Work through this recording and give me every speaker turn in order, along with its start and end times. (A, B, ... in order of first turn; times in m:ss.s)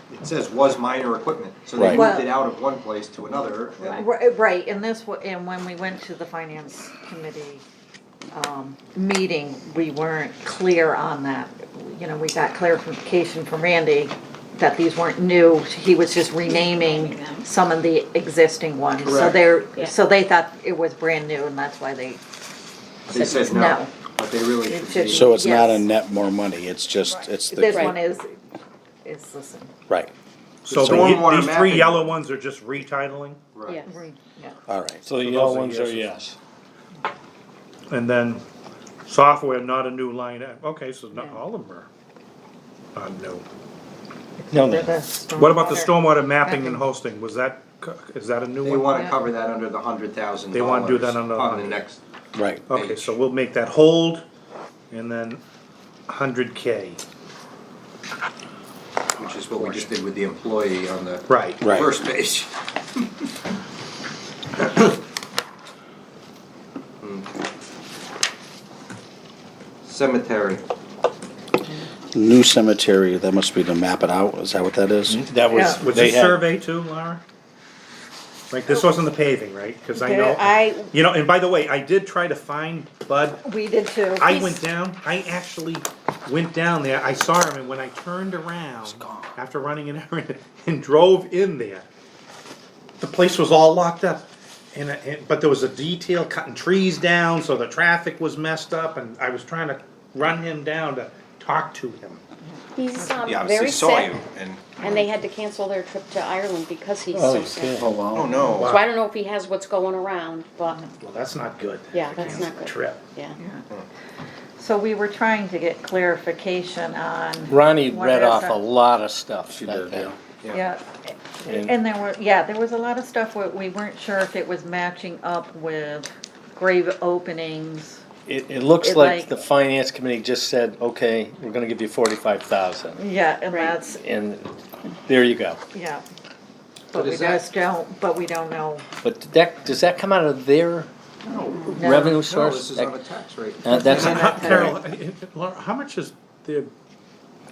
0:00.1-0:04.0 A
0:01.8-0:02.0 B
0:01.9-0:02.3 C
0:03.8-0:07.6 C
0:08.3-0:22.2 C
0:19.0-0:19.4 A
0:23.1-0:25.3 A
0:23.1-0:23.9 C
0:24.6-0:25.9 C
0:25.1-0:27.9 B
0:27.1-0:28.4 C
0:27.7-0:27.9 D
0:29.0-0:29.7 C
0:30.6-0:33.5 E
0:30.7-0:32.2 A
0:30.8-0:31.2 B
0:33.5-0:33.8 A
0:33.8-0:34.6 C
0:34.7-0:35.1 B
0:35.0-0:36.4 F
0:35.2-0:36.1 E
0:37.9-0:38.4 E
0:39.0-0:41.9 E
0:41.1-0:41.4 C
0:42.9-0:43.4 E
0:44.4-0:46.8 C
0:44.5-0:44.9 F
0:45.3-0:49.0 E
0:48.6-0:52.0 A
0:50.5-0:51.8 E
0:52.4-0:52.6 B
0:52.7-0:54.2 E
0:52.7-0:53.1 A
0:54.9-0:55.4 E
0:56.1-0:57.0 E
0:59.2-1:03.1 A
1:01.3-1:01.7 E
1:01.6-1:01.9 B
1:07.0-1:07.4 A
1:09.8-1:10.6 A
1:12.1-1:15.2 B
1:15.1-1:16.4 F
1:15.5-1:15.8 C
1:15.8-1:17.2 E
1:18.5-1:23.4 E
1:20.0-1:20.9 C
1:23.4-1:24.6 C
1:24.2-1:31.9 E
1:28.8-1:29.3 B
1:33.0-1:42.2 E
1:42.4-1:43.2 C
1:42.7-1:44.2 D
1:43.2-1:44.8 A
1:44.8-1:47.9 D
1:47.1-1:47.9 F
1:47.8-1:48.4 B
1:48.1-1:48.8 A
1:48.6-1:48.8 E
1:48.6-1:50.8 D
1:50.7-1:50.9 C
1:51.0-1:53.0 E
1:51.9-1:53.4 D
1:53.4-1:53.7 C
1:54.6-1:58.6 C
1:57.5-2:00.1 F
1:59.5-2:00.1 B
2:00.5-2:00.8 C
2:01.4-2:08.0 C
2:01.4-2:01.7 F
2:08.3-2:13.0 F
2:08.8-2:09.3 C
2:13.0-2:14.0 C
2:13.5-2:13.8 D
2:14.0-2:14.5 F
2:15.0-2:15.6 F
2:15.7-2:16.0 C
2:16.9-2:18.8 C
2:16.9-2:17.4 A
2:19.0-2:20.9 F
2:21.2-2:24.6 A
2:21.6-2:23.0 F
2:21.7-2:22.2 C
2:23.6-2:24.7 F
2:23.7-2:24.8 C
2:23.9-2:26.7 E